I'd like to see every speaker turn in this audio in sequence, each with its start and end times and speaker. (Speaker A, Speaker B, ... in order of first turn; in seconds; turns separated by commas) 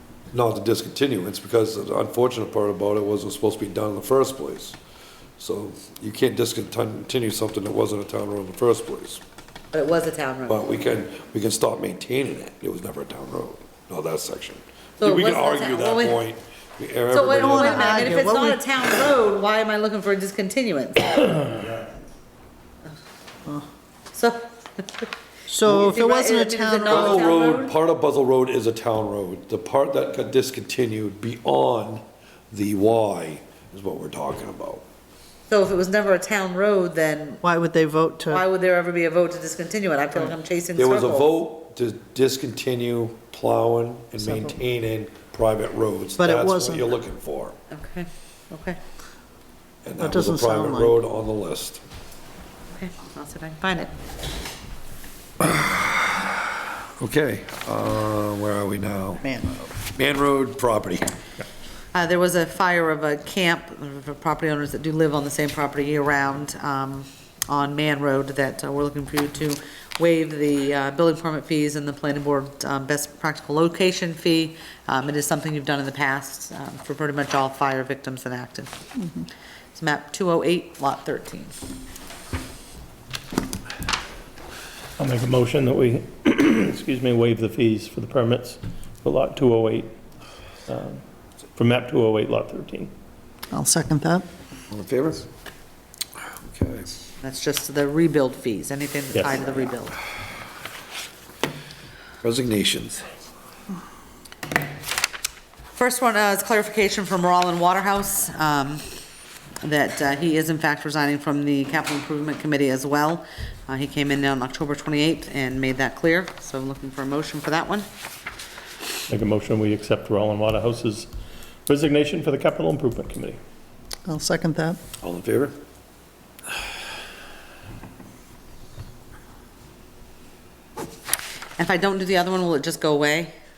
Speaker A: 0.3-4.8, Speaker A: 5.4-9.2, Speaker B: 9.7-10.7, Speaker A: 10.5-18.1, Speaker B: 15.0-16.2, Speaker B: 17.1-21.5, Speaker C: 17.4-18.6, Speaker B: 24.1-25.1, Speaker C: 25.5-27.3, Speaker B: 25.6-27.7, Speaker A: 26.9-34.8, Speaker B: 35.5-37.4, Speaker C: 37.4-38.4, Speaker B: 38.3-41.4, Speaker A: 40.8-47.6, Speaker C: 44.2-44.5, Speaker C: 46.2-46.8, Speaker B: 47.7-48.8, Speaker A: 49.8-51.8, Speaker C: 50.0-51.0, Speaker B: 52.7-53.9, Speaker A: 55.4-56.3, Speaker A: 57.0-61.1, Speaker B: 61.9-78.7, Speaker B: 79.7-81.5, Speaker D: 85.0-89.9, Speaker D: 90.7-91.0, Speaker D: 91.5-92.9, Speaker C: 93.5-94.2, Speaker A: 94.7-95.3, Speaker A: 96.4-96.9, Speaker B: 97.2-100.0, Speaker A: 102.2-103.1, Speaker B: 105.8-108.8, Speaker B: 109.6-117.9, Speaker D: 119.1-121.1, Speaker D: 121.7-123.4, Speaker C: 124.0-124.8, Speaker A: 125.0-125.5, Speaker B: 131.6-133.3